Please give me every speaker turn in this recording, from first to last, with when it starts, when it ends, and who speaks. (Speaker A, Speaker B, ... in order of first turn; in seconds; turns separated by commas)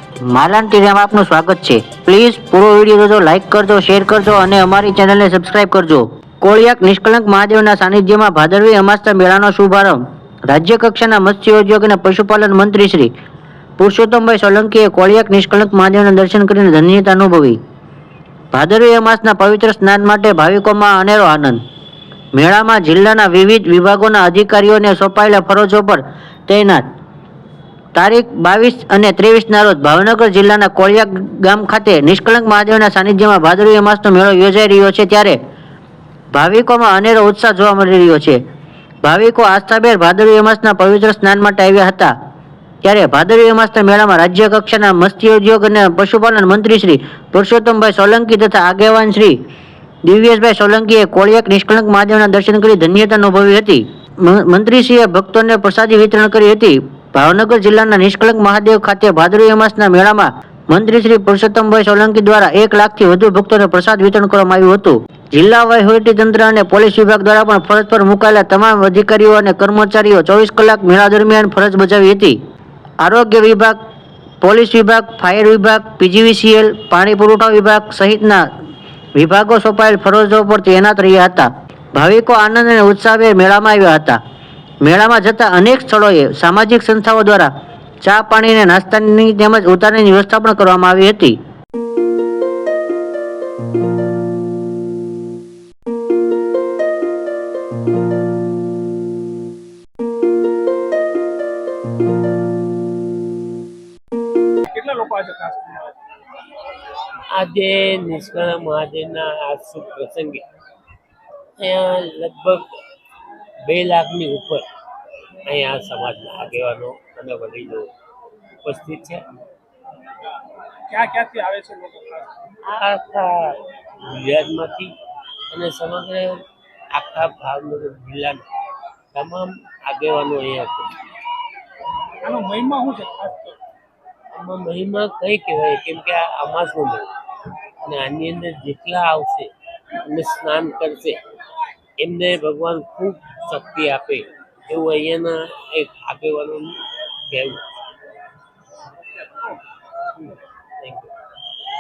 Speaker A: 0.2-13.1, Speaker A: 13.8-17.6, Speaker A: 18.5-21.6, Speaker A: 22.3-26.9, Speaker A: 27.9-35.4, Speaker A: 36.3-38.4, Speaker A: 39.0-42.1, Speaker A: 42.8-49.4, Speaker A: 50.0-72.4, Speaker A: 73.0-73.8, Speaker A: 74.4-78.5, Speaker A: 79.2-84.2, Speaker A: 84.8-87.5, Speaker A: 88.0-91.4, Speaker B: 104.7-106.0, Speaker C: 107.3-110.4, Speaker C: 111.6-112.7, Speaker C: 113.6-114.7, Speaker C: 115.4-117.9, Speaker C: 118.6-119.2, Speaker B: 120.9-122.3, Speaker C: 122.6-124.9, Speaker C: 125.5-126.4, Speaker C: 126.9-128.4, Speaker C: 129.1-130.9, Speaker B: 132.2-133.6, Speaker C: 134.3-137.1, Speaker C: 137.8-141.2, Speaker C: 142.0-147.7, Speaker C: 150.8-151.1